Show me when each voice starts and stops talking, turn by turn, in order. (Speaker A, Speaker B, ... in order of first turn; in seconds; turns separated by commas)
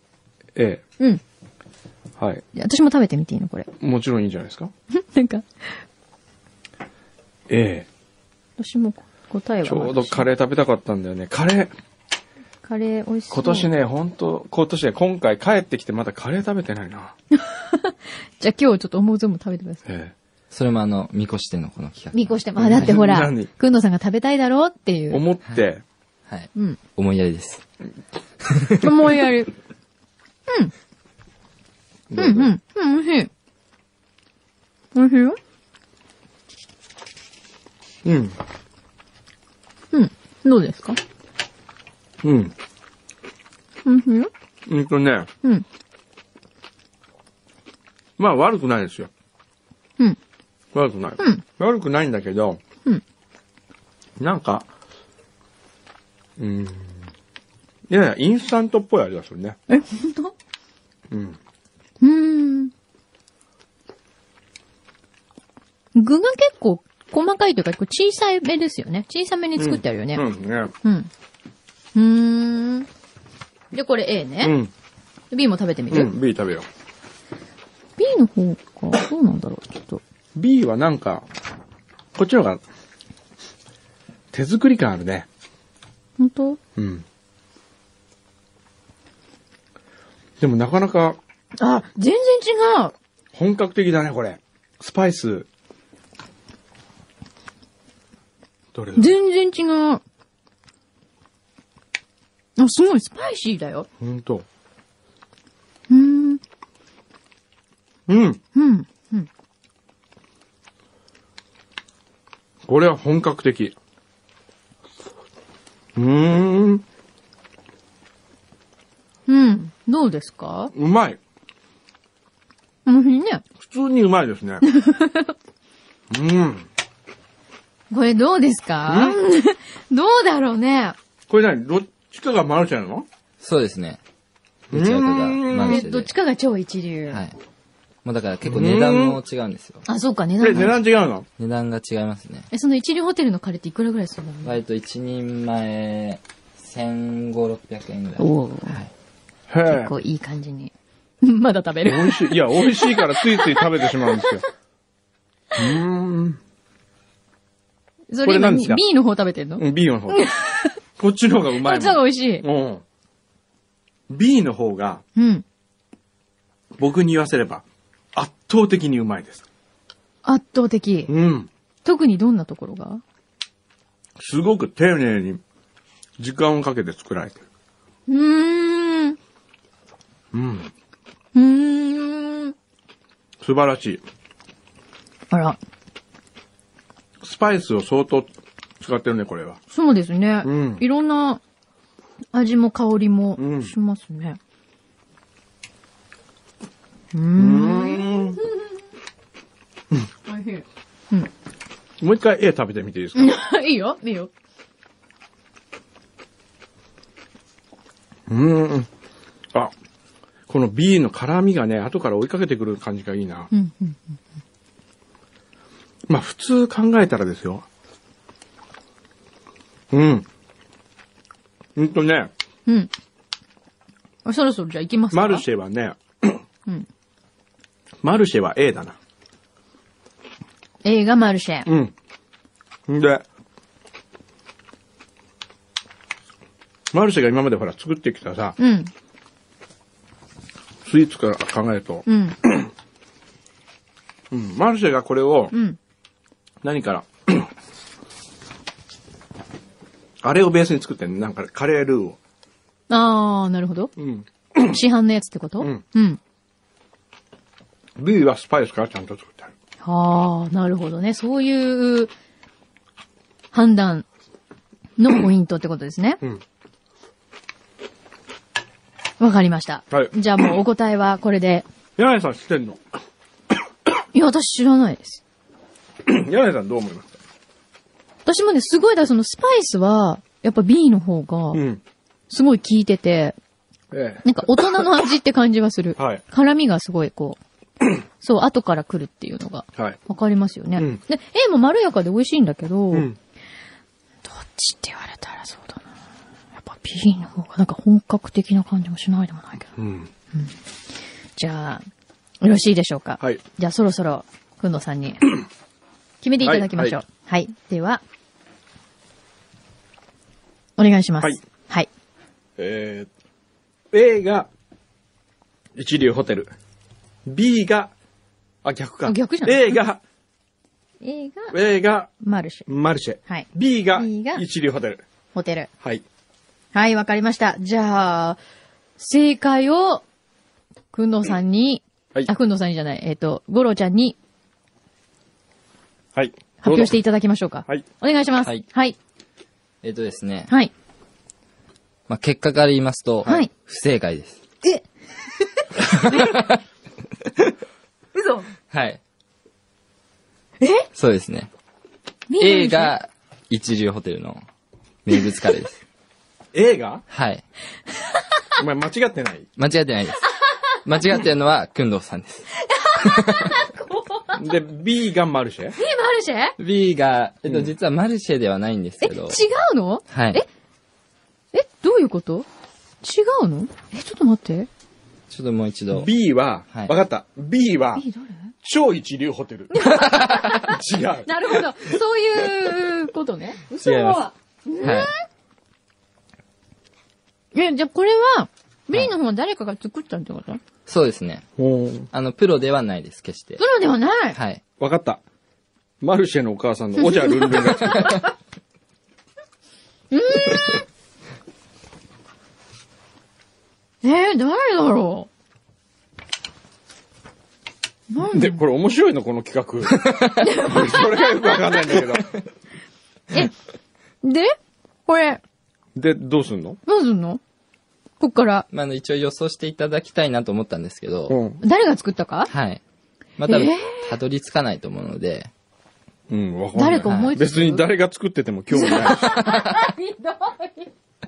Speaker A: 0.6-0.8, Speaker B: 2.5-3.7, Speaker A: 3.8-4.7, Speaker B: 4.9-5.5, Speaker A: 7.5-7.9, Speaker B: 8.6-10.3, Speaker A: 9.6-11.7, Speaker B: 12.6-13.7, Speaker A: 13.3-17.1, Speaker B: 17.3-19.8, Speaker A: 19.9-20.1, Speaker C: 20.5-22.9, Speaker B: 22.1-25.2, Speaker A: 22.6-23.5, Speaker A: 25.1-25.8, Speaker C: 26.3-27.6, Speaker C: 28.4-28.8, Speaker B: 28.8-29.5, Speaker B: 30.5-30.7, Speaker A: 32.1-32.5, Speaker B: 32.2-33.3, Speaker B: 35.0-35.4, Speaker A: 38.0-38.4, Speaker B: 39.9-41.0, Speaker A: 42.2-42.5, Speaker B: 43.9-44.3, Speaker A: 44.7-45.3, Speaker A: 48.2-49.1, Speaker A: 50.7-52.6, Speaker A: 54.2-54.7, Speaker A: 56.4-57.0, Speaker A: 57.9-59.6, Speaker B: 59.7-60.3, Speaker A: 61.1-61.4, Speaker B: 62.0-62.7, Speaker B: 66.0-70.3, Speaker A: 69.6-70.7, Speaker B: 70.8-71.1, Speaker B: 72.0-72.9, Speaker B: 73.7-74.6, Speaker A: 74.4-74.7, Speaker B: 75.3-76.1, Speaker A: 75.9-76.7, Speaker B: 78.0-80.0, Speaker A: 80.3-81.3, Speaker A: 82.2-82.6, Speaker A: 84.3-85.3, Speaker B: 86.2-86.6, Speaker A: 86.8-87.0, Speaker A: 90.4-91.2, Speaker B: 91.6-92.9, Speaker A: 93.3-95.5, Speaker A: 98.7-99.2, Speaker B: 99.0-100.0, Speaker B: 102.6-103.9, Speaker A: 104.0-104.5, Speaker B: 105.9-106.4, Speaker A: 108.1-108.4, Speaker B: 108.5-109.3, Speaker A: 112.7-113.8, Speaker A: 116.0-116.8, Speaker B: 119.3-120.7, Speaker A: 120.7-121.2, Speaker B: 122.9-123.4, Speaker A: 123.6-124.6, Speaker B: 124.6-125.3, Speaker A: 126.1-126.7, Speaker B: 127.9-131.0, Speaker A: 128.9-129.2, Speaker A: 131.3-133.1, Speaker C: 133.4-134.0, Speaker A: 134.7-135.9, Speaker C: 134.7-136.1, Speaker B: 135.7-137.2, Speaker C: 138.1-139.8, Speaker A: 138.4-139.2, Speaker B: 139.9-140.8, Speaker A: 140.4-141.3, Speaker C: 141.4-142.5, Speaker B: 142.5-144.6, Speaker C: 144.4-148.9, Speaker B: 148.2-148.8, Speaker A: 149.5-149.9, Speaker B: 149.7-154.4, Speaker A: 151.8-154.4, Speaker A: 155.6-156.4, Speaker B: 158.1-160.8, Speaker A: 158.2-158.8, Speaker A: 159.6-160.3, Speaker A: 161.0-162.8, Speaker B: 161.6-162.4, Speaker A: 164.1-165.0, Speaker B: 165.2-165.4, Speaker A: 166.8-169.4, Speaker B: 170.2-171.1, Speaker A: 171.1-171.5, Speaker B: 171.8-173.0, Speaker A: 174.2-175.4, Speaker A: 176.2-177.4, Speaker B: 178.1-179.2, Speaker A: 180.3-180.7, Speaker B: 181.3-182.6, Speaker A: 183.4-184.0, Speaker B: 185.3-185.6, Speaker A: 187.2-189.6, Speaker B: 189.7-191.4, Speaker A: 190.4-190.8, Speaker B: 192.3-194.4, Speaker A: 193.4-193.7, Speaker B: 197.1-198.6, Speaker A: 197.3-198.4, Speaker B: 200.3-201.3, Speaker A: 202.0-203.4, Speaker B: 203.2-204.3, Speaker A: 208.3-208.9, Speaker A: 210.5-213.5, Speaker B: 213.5-214.0, Speaker A: 216.1-217.7, Speaker A: 219.9-220.3, Speaker A: 221.8-222.3, Speaker B: 224.2-225.4, Speaker A: 225.1-226.4, Speaker A: 228.0-229.0, Speaker B: 230.8-231.7, Speaker A: 231.7-231.9, Speaker A: 232.9-233.2, Speaker A: 236.9-238.6, Speaker B: 238.6-238.9, Speaker A: 240.8-242.7, Speaker B: 242.1-242.4, Speaker A: 244.3-245.5, Speaker B: 245.5-245.8, Speaker A: 246.6-247.5, Speaker A: 250.2-252.2, Speaker B: 252.9-253.9, Speaker A: 254.0-254.8, Speaker B: 254.7-256.2, Speaker A: 258.0-259.5, Speaker B: 259.8-262.1, Speaker B: 263.5-264.1, Speaker B: 265.0-266.2, Speaker B: 269.2-271.7, Speaker A: 272.0-272.8, Speaker B: 274.1-275.2, Speaker A: 276.1-277.2, Speaker B: 278.3-281.6, Speaker A: 281.5-281.8, Speaker B: 282.3-283.4, Speaker A: 283.9-284.8, Speaker B: 284.2-287.4, Speaker A: 286.0-286.2, Speaker B: 288.2-293.1, Speaker A: 292.9-293.2, Speaker B: 294.2-295.9, Speaker B: 296.6-299.7, Speaker A: 299.8-300.1, Speaker B: 301.4-301.9, Speaker B: 302.4-305.4, Speaker B: 306.2-308.0, Speaker A: 306.4-307.0, Speaker B: 310.8-311.9, Speaker A: 312.6-313.1, Speaker A: 313.9-314.5, Speaker A: 315.8-316.5, Speaker A: 317.3-317.9, Speaker A: 318.6-320.0, Speaker B: 319.1-319.8, Speaker B: 321.0-321.6, Speaker A: 321.5-322.1, Speaker B: 322.2-322.7, Speaker A: 322.7-325.0, Speaker B: 323.3-324.4, Speaker B: 325.3-325.7, Speaker B: 326.7-328.4, Speaker B: 329.0-330.0, Speaker B: 330.9-334.2, Speaker A: 336.1-336.9, Speaker B: 336.6-339.0, Speaker C: 339.8-340.5, Speaker C: 342.1-344.4, Speaker B: 345.6-346.4, Speaker C: 345.9-346.6, Speaker B: 348.1-348.5, Speaker C: 348.7-349.0, Speaker B: 350.6-350.9, Speaker C: 350.9-351.5, Speaker B: 352.3-352.9, Speaker C: 352.4-354.4, Speaker C: 355.1-355.8, Speaker A: 356.5-357.0, Speaker C: 357.1-357.4, Speaker A: 358.6-359.5, Speaker C: 359.6-360.3, Speaker C: 360.8-363.6, Speaker B: 362.6-364.4, Speaker A: 364.4-365.8, Speaker B: 365.8-366.6, Speaker C: 366.6-369.4, Speaker A: 367.4-367.7, Speaker B: 369.0-370.5, Speaker C: 370.1-370.4, Speaker B: 371.5-372.5, Speaker B: 373.0-374.7, Speaker C: 375.3-376.1, Speaker A: 375.9-378.1, Speaker B: 378.0-378.5, Speaker A: 378.6-379.8, Speaker B: 379.7-385.2, Speaker C: 379.9-380.5, Speaker A: 380.5-381.6, Speaker C: 383.8-384.2, Speaker C: 384.8-385.1, Speaker B: 387.5-390.6, Speaker C: 390.9-391.5, Speaker A: 391.6-392.1, Speaker C: 392.1-393.6, Speaker B: 393.6-394.4, Speaker C: 394.3-394.6, Speaker A: 394.8-395.2, Speaker A: 396.0-398.2, Speaker B: 397.0-398.3, Speaker B: 400.1-400.9, Speaker B: 404.0-405.3, Speaker B: 408.1-408.6, Speaker A: 408.3-412.3, Speaker C: 410.0-410.4, Speaker B: 410.4-411.8, Speaker B: 414.2-414.6, Speaker B: 415.1-415.4, Speaker A: 416.0-416.8, Speaker B: 416.9-417.4, Speaker B: 418.2-418.7, Speaker C: 418.7-421.4, Speaker A: 421.3-421.6, Speaker B: 421.6-422.5, Speaker C: 422.5-422.8, Speaker C: 423.4-425.5, Speaker B: 423.5-424.2, Speaker A: 426.3-429.3, Speaker B: 426.8-427.9, Speaker C: 427.0-427.3, Speaker B: 428.7-430.9, Speaker C: 429.2-429.8